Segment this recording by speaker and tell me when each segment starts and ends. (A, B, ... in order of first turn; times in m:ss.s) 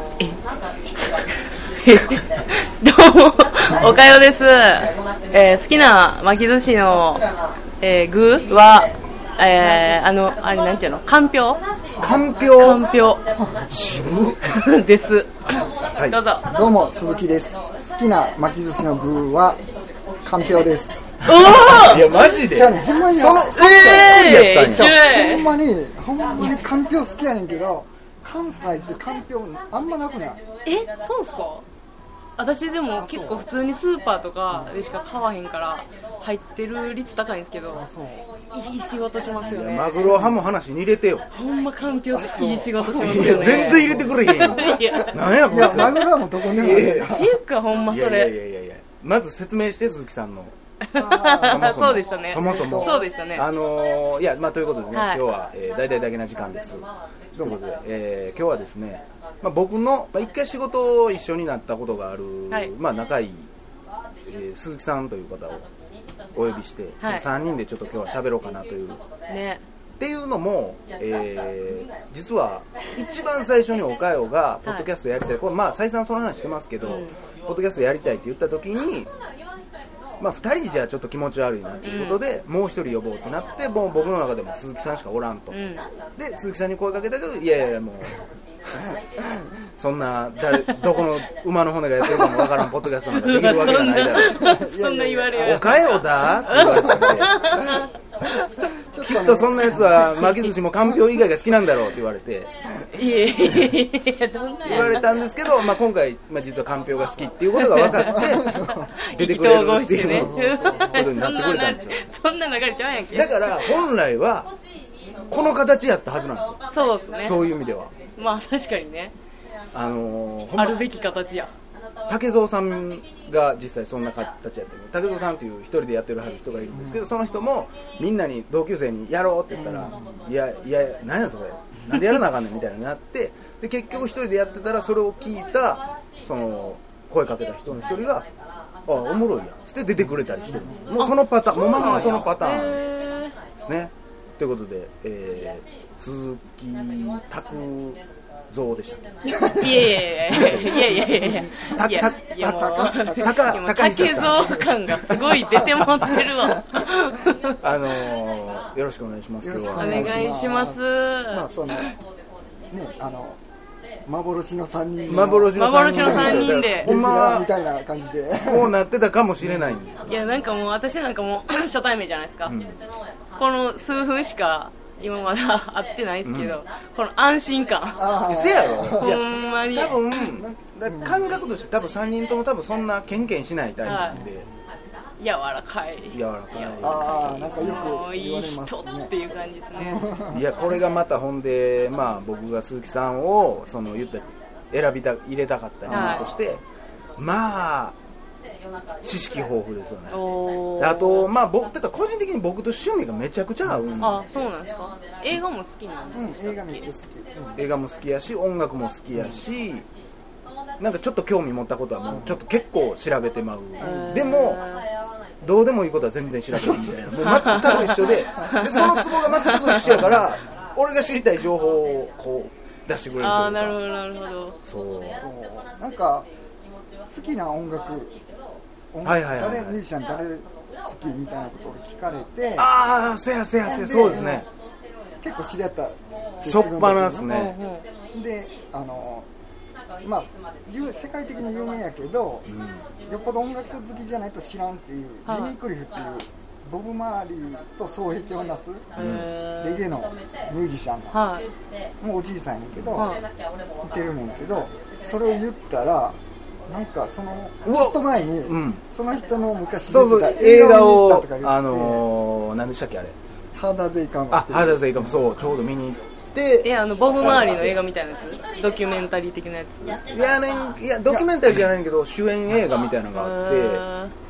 0:01.8-0:07.3 A
0:07.8-0:11.6 A
0:12.0-0:12.3 B
0:12.0-0:12.9 C
0:12.5-0:13.2 A
0:13.4-0:13.7 B
0:13.7-0:14.5 C
0:14.5-0:16.4 A
0:15.9-0:16.2 C
0:16.5-0:19.6 B
0:20.2-0:21.1 B
0:21.2-0:22.4 A
0:21.3-0:25.0 C
0:22.1-0:30.4 B
0:22.9-0:25.6 A
0:30.6-0:31.6 A
0:32.4-0:37.8 A
0:33.0-0:33.5 B
0:34.5-0:34.8 B
0:37.7-0:38.3 B
0:38.5-0:40.0 A
0:39.4-0:41.3 C
0:39.9-0:40.4 B
0:41.3-0:45.1 A
0:42.1-0:47.3 B
0:42.9-0:47.2 C
0:47.1-0:48.3 A
0:47.9-0:50.6 C
0:50.8-0:53.4 A
0:51.0-0:51.8 B
0:51.4-1:03.5 C
0:52.4-0:53.0 B
0:54.9-0:55.2 A
1:04.3-1:05.7 C
1:06.3-1:09.0 C
1:09.3-1:09.6 A
1:10.0-1:19.1 C
1:16.8-1:17.2 A
1:20.2-1:25.6 C
1:21.8-1:22.2 A
1:25.5-1:25.9 A
1:26.2-1:28.2 C
1:28.8-1:29.5 B
1:29.8-1:34.4 C
1:32.2-1:32.5 B
1:33.1-1:37.9 A
1:34.2-1:35.8 B
1:35.4-1:37.5 C
1:36.5-1:37.2 B
1:38.9-1:40.2 B
1:39.0-1:42.5 C
1:39.8-1:40.5 A
1:42.9-1:45.1 A
1:44.6-1:48.6 C
1:47.6-1:53.7 A
1:48.0-1:48.9 B
1:49.1-1:52.0 C
1:50.0-1:51.1 B
1:53.1-1:54.5 C
1:55.3-1:56.6 C
1:56.7-1:57.4 A
1:57.2-1:57.9 C
1:58.2-1:59.1 A
1:59.7-2:00.8 C
2:00.6-2:01.5 A
2:02.1-2:18.2 C
2:06.7-2:07.1 B
2:09.5-2:10.3 B
2:18.9-2:22.8 C
2:20.1-2:21.0 B
2:21.0-2:23.3 A
2:21.5-2:22.3 B
2:23.6-2:29.0 C
2:29.2-2:31.9 B
2:29.6-2:37.6 A
2:30.3-2:35.3 C
2:32.4-2:33.6 B
2:36.1-2:36.5 B
2:37.6-2:40.2 C
2:39.4-2:41.9 B
2:39.8-2:41.9 A
2:42.7-2:43.4 B
2:44.0-2:48.8 B
2:45.1-2:47.5 C
2:45.5-2:46.9 A
2:48.4-2:50.1 C
2:49.4-2:49.8 B
2:50.0-2:52.6 A
2:52.5-2:52.9 C
2:53.4-3:00.3 A
2:56.2-2:56.6 C
2:58.0-2:59.2 B
2:58.2-3:04.4 C
3:00.2-3:01.2 B
3:03.8-3:04.2 A
3:04.0-3:04.4 B
3:05.2-3:10.1 A
3:06.1-3:08.0 C
3:06.8-3:09.1 B
3:09.8-3:10.4 B
3:10.3-3:16.6 C
3:15.8-3:16.5 B
3:15.9-3:16.3 A
3:17.2-3:17.9 C
3:19.0-3:24.4 C
3:20.1-3:21.3 A
3:24.0-3:26.9 A
3:26.1-3:27.6 B
3:27.6-3:29.8 C
3:29.1-3:29.4 B
3:30.8-3:34.6 C
3:32.1-3:32.4 B
3:33.8-3:34.9 A
3:35.4-3:43.8 C
3:36.5-3:37.2 B
3:37.2-3:40.1 A
3:39.8-3:40.4 B
3:43.2-3:44.6 A
3:44.7-3:45.2 C
3:45.1-3:46.3 B
3:47.0-3:48.2 B
3:48.9-3:52.7 B
3:49.0-3:49.8 C
3:52.6-3:54.5 C
3:53.6-3:54.4 B
3:54.1-3:54.4 A
3:55.2-3:57.4 B
3:56.4-3:57.6 C
3:57.2-3:57.9 A
3:58.1-3:59.3 B
4:00.0-4:02.5 B
4:02.5-4:02.9 C
4:03.1-4:08.9 B
4:05.2-4:05.6 A
4:08.9-4:09.9 A
4:09.0-4:09.3 C
4:09.6-4:11.2 B
4:11.1-4:11.5 A
4:12.0-4:13.1 B
4:12.7-4:13.0 C
4:13.0-4:13.2 A
4:13.8-4:22.0 B
4:17.6-4:18.8 C
4:19.9-4:23.2 C
4:23.6-4:25.2 B
4:24.3-4:27.8 C
4:26.6-4:30.0 A
4:30.0-4:33.8 C
4:33.2-4:34.1 A